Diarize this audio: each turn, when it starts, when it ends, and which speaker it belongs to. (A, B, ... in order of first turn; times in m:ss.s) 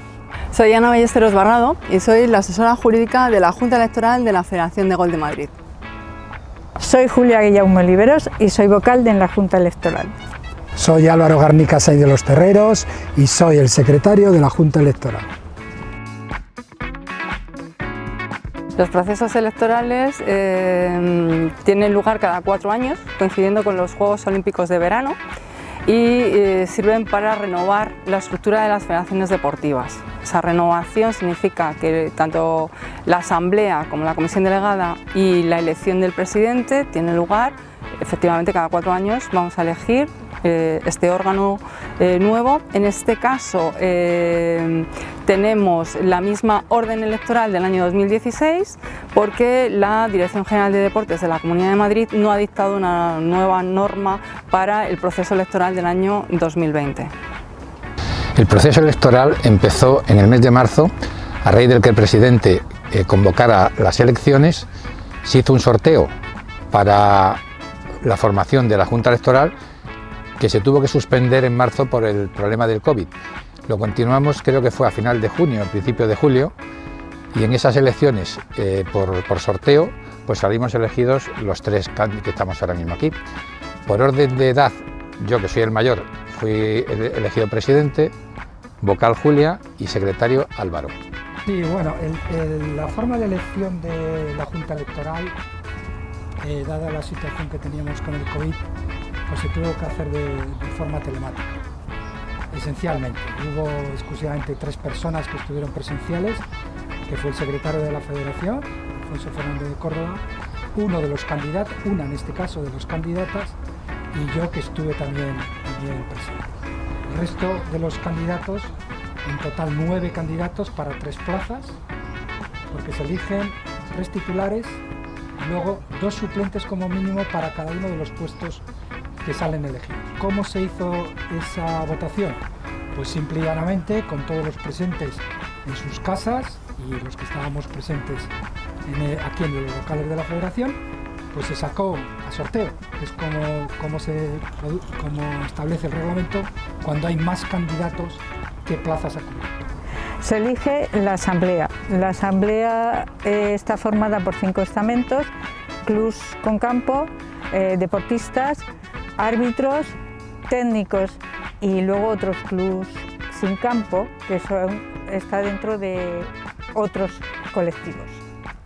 0:00.5-0:05.5 A
0:06.8-0:10.1 B
0:10.8-0:15.3 C
0:18.8-0:25.2 A
0:25.8-0:57.1 A
0:58.3-1:00.9 D
1:01.4-1:04.7 D
1:05.2-1:06.1 D
1:06.7-1:07.4 D
1:08.0-1:09.5 D
1:10.4-1:13.1 D
1:13.7-1:16.5 D
1:17.3-1:23.2 D
1:23.8-1:28.1 D
1:28.8-1:30.9 D
1:31.4-1:35.4 C
1:36.4-1:38.6 C
1:39.3-1:41.6 C
1:42.5-1:46.4 C
1:47.0-1:50.2 C
1:50.7-1:53.6 C
1:54.1-1:56.5 C
1:57.1-2:01.8 C
2:02.7-2:04.8 C
2:05.4-2:08.6 C
2:09.2-2:12.4 C
2:12.9-2:18.3 C
2:18.9-2:20.8 C
2:21.3-2:29.6 C
2:30.2-2:35.3 B
2:35.8-2:40.0 B
2:40.5-2:48.2 B